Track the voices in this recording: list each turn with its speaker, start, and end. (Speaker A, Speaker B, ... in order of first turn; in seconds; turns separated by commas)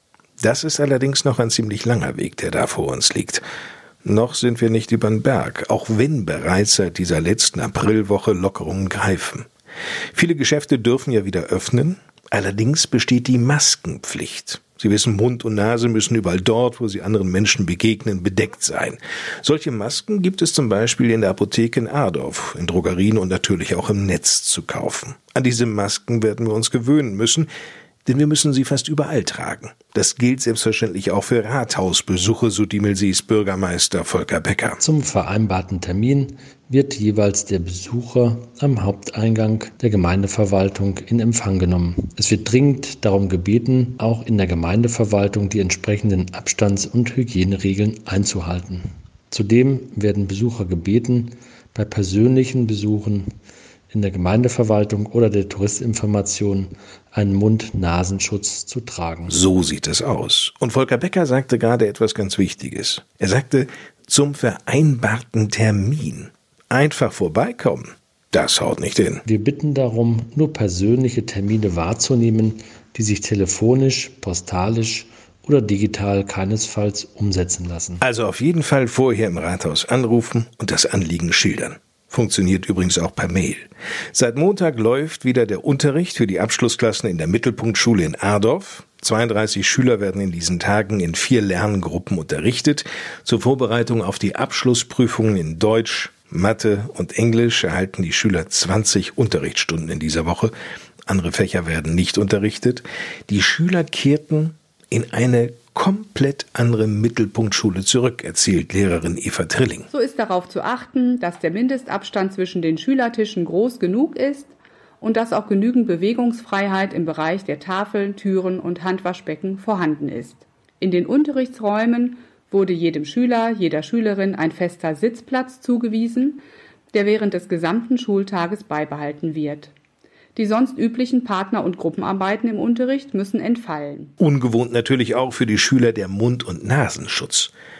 Speaker A: 0.4-3.4, Speaker A: 4.0-9.5, Speaker A: 10.1-27.5, Speaker A: 28.1-34.8, Speaker B: 34.8-53.3, Speaker B: 53.9-59.4, Speaker A: 59.3-69.2, Speaker B: 69.2-78.0, Speaker A: 78.0-100.5, Speaker A: 101.1-109.9, Speaker C: 109.9-129.7, Speaker C: 130.3-134.1, Speaker A: 134.2-137.5